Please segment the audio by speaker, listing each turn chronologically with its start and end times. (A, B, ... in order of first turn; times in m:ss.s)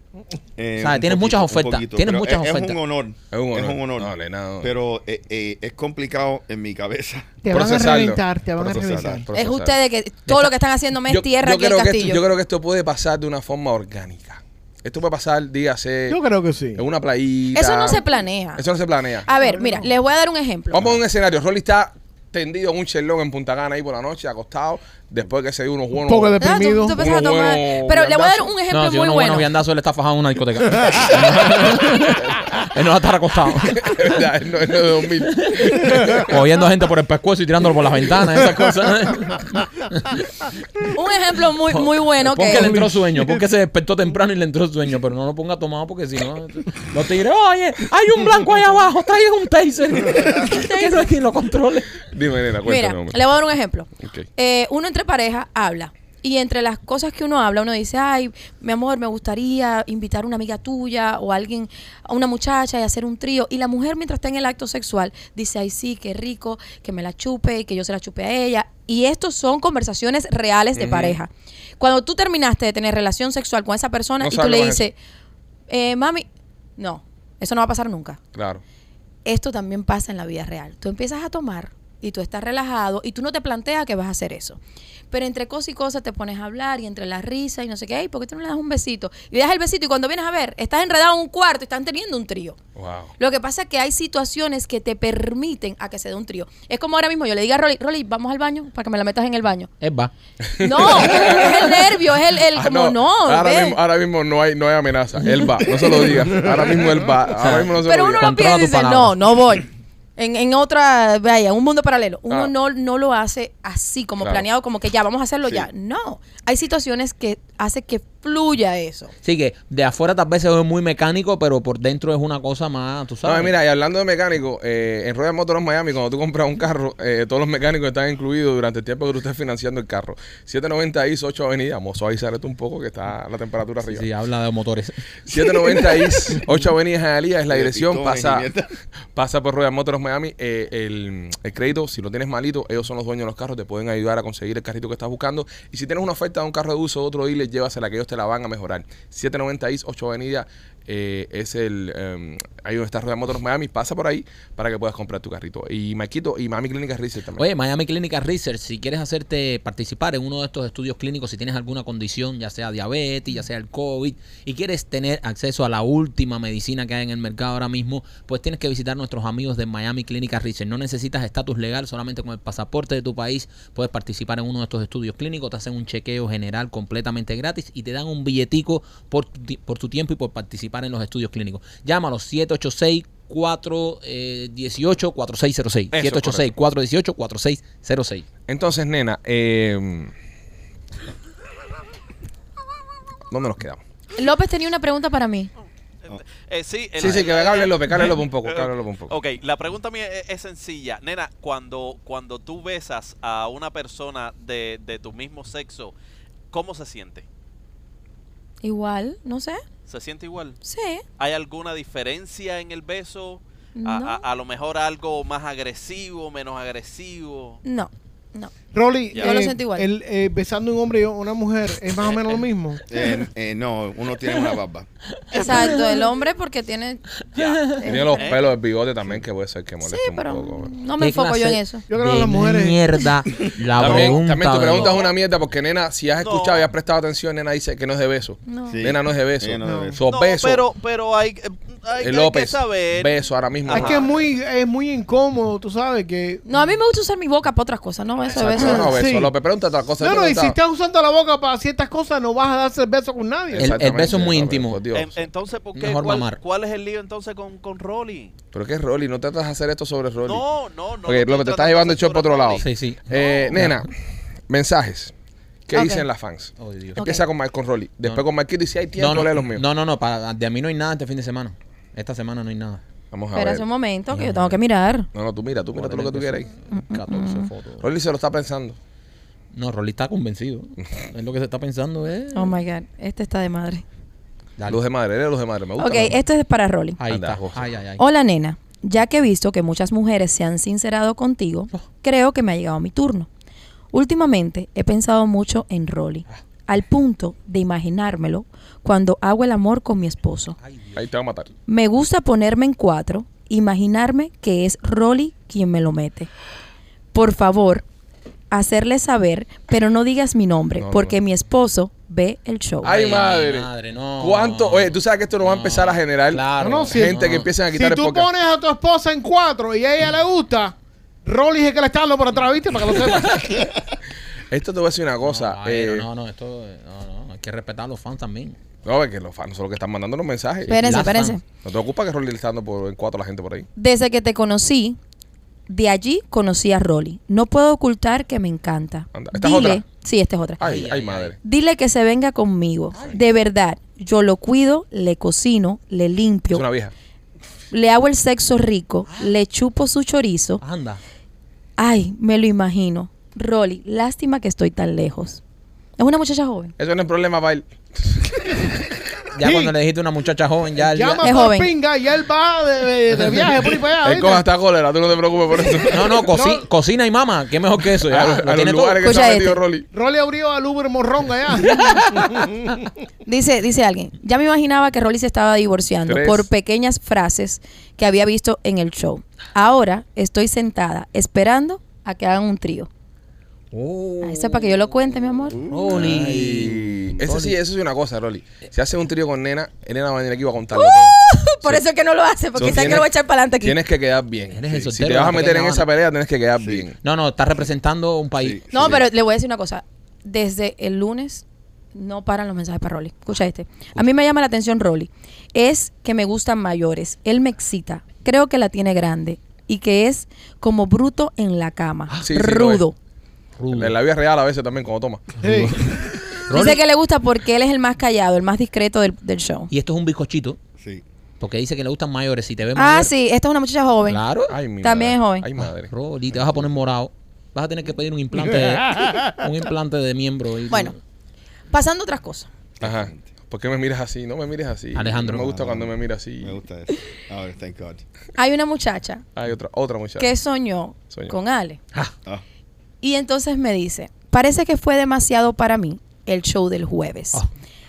0:00.6-0:07.4 A
0:00.8-0:02.8 B
0:03.3-0:04.7 C
0:07.4-0:09.3 D
0:07.5-0:09.8 C
0:09.3-0:12.2 E
0:11.1-0:16.2 C
0:16.1-0:16.8 D
0:16.8-0:18.0 C
0:17.5-0:18.6 E
0:18.6-0:19.3 C
0:19.2-0:20.8 E
0:19.4-0:19.9 D
0:20.7-0:26.4 C
0:26.0-0:27.0 D
0:26.4-0:29.5 E
0:27.0-0:28.5 C
0:28.7-0:34.1 B
0:33.8-0:36.4 C
0:35.2-0:40.3 B
0:40.9-0:42.7 E
0:41.7-0:51.9 B
0:42.5-0:43.4 D
0:50.4-0:51.1 E
0:52.1-0:53.2 C
0:52.6-1:15.0 E
0:54.0-0:54.2 C
1:10.8-1:11.2 C
1:14.2-1:14.9 C
1:15.7-1:16.2 E
1:16.8-1:18.2 E
1:18.3-1:18.6 C
1:19.2-1:24.6 E
1:25.1-1:32.6 E
1:32.7-1:33.1 C
1:33.2-1:39.7 E
1:39.8-1:40.1 B
1:40.4-1:41.9 C
1:40.6-1:43.8 E
1:42.5-1:48.3 C
1:45.8-1:46.8 A
1:47.4-1:49.1 B
1:47.8-1:59.1 E
1:59.2-2:03.5 B
2:03.2-2:14.1 C
2:13.9-2:15.0 B
2:15.3-2:18.5 C
2:15.3-2:16.3 A
2:17.5-2:18.7 A
2:19.1-2:37.4 C
2:37.4-3:08.2 B
3:05.9-3:06.5 C
3:08.5-3:10.1 C
3:13.3-3:13.8 C
3:14.2-3:15.5 E
3:16.1-3:17.9 F
3:17.0-3:19.2 C
3:18.4-3:25.9 F
3:26.5-3:27.2 F
3:28.6-3:29.6 E
3:29.9-3:30.6 F
3:30.6-3:31.0 E
3:31.2-3:37.6 F
3:33.8-3:34.2 E
3:37.6-3:38.5 E
3:38.7-3:42.8 D
3:39.1-3:39.4 F
3:39.1-3:39.9 E
3:42.9-3:44.9 A
3:45.3-3:47.1 E
3:45.4-3:46.0 B
3:47.3-3:47.8 B
3:47.3-3:48.5 F
3:47.7-3:48.3 E
3:47.8-3:50.7 C
3:49.8-3:51.8 E
3:51.0-3:55.0 B
3:51.9-3:52.8 D
3:53.7-4:00.6 C
3:54.7-3:55.1 F
3:56.2-3:56.6 F
3:58.5-3:58.8 E
3:58.7-4:00.0 A
3:59.6-4:00.0 D
4:00.0-4:03.1 F
4:02.0-4:04.0 C
4:03.6-4:04.1 F
4:03.7-4:06.6 D
4:06.4-4:09.0 E
4:08.4-4:10.6 C
4:08.5-4:09.3 D
4:10.0-4:13.8 D
4:13.5-4:15.3 C
4:13.6-4:14.8 B
4:14.9-4:18.3 F
4:15.7-4:16.4 B
4:18.5-4:20.4 C
4:20.2-4:22.7 F
4:21.0-4:23.9 C
4:22.6-4:23.8 B
4:24.5-4:25.1 C
4:25.7-4:29.6 C
4:25.7-4:26.0 E
4:26.6-4:27.0 B
4:27.0-4:27.2 E
4:29.0-4:32.8 B
4:33.1-4:33.6 C
4:33.3-4:35.1 E
4:34.1-4:34.6 B
4:35.1-4:36.5 C
4:35.7-4:37.8 B
4:36.7-4:37.5 E
4:37.8-4:38.8 C
4:39.5-4:42.5 B
4:42.3-4:43.8 E
4:44.7-4:46.2 C
4:45.8-4:47.0 E
4:47.0-4:48.0 B
4:47.1-4:47.6 C
4:48.0-4:53.3 E
4:53.9-5:00.6 E
5:00.6-5:01.0 B
5:00.9-5:01.5 C
5:01.7-5:06.3 E
5:07.1-5:07.8 E
5:08.5-5:12.9 E
5:10.8-5:11.2 C
5:12.8-5:18.3 C
5:12.8-5:17.5 B
5:16.6-5:23.6 D
5:24.5-5:26.1 C
5:25.2-5:28.6 B
5:28.8-5:30.8 C
5:30.6-5:31.4 B
5:30.7-5:31.4 E
5:31.6-5:33.7 C
5:33.8-5:35.0 E
5:35.7-5:40.6 E
5:39.1-5:39.8 C
5:40.6-5:41.4 C
5:40.6-5:41.3 B
5:41.4-5:46.6 E
5:46.5-5:46.9 C
5:47.7-5:50.6 E
5:50.6-5:51.0 B
5:51.8-5:55.4 E
5:56.0-5:56.7 E
5:56.8-5:58.7 C
5:59.3-6:01.3 B
5:59.4-5:59.7 D
6:00.8-6:04.4 D
6:01.2-6:01.7 E
6:04.0-6:06.2 C
6:05.9-6:09.0 B
6:06.3-6:06.6 D
6:08.0-6:09.9 C
6:09.0-6:09.6 E
6:09.9-6:12.7 D
6:11.7-6:12.4 B
6:13.2-6:22.9 E
6:16.0-6:16.5 C
6:23.7-6:24.8 B
6:24.2-6:25.6 E
6:25.5-6:26.7 A
6:25.7-6:27.6 B
6:25.9-6:31.8 C
6:30.7-6:33.8 E
6:32.6-6:33.1 C
6:32.6-6:33.0 A
6:33.6-6:37.0 C
6:34.5-6:35.9 B
6:37.0-6:38.6 B
6:38.4-6:39.0 A
6:38.7-6:52.9 E
6:52.2-6:52.8 C
6:53.6-6:53.9 B
6:53.7-6:55.2 C
6:55.4-6:55.8 D
6:55.4-6:56.8 B
6:56.5-6:59.7 E
6:59.7-7:00.6 B
7:01.4-7:03.1 B
7:02.7-7:04.2 E
7:04.1-7:04.6 B
7:04.5-7:05.9 C
7:04.8-7:05.4 E
7:05.9-7:10.9 B
7:11.7-7:12.5 E
7:12.8-7:13.2 A
7:12.8-7:16.6 C
7:14.9-7:15.5 B
7:15.4-7:18.0 A
7:18.4-7:19.2 E
7:19.4-7:20.3 C
7:20.2-7:21.8 E
7:23.0-7:27.4 E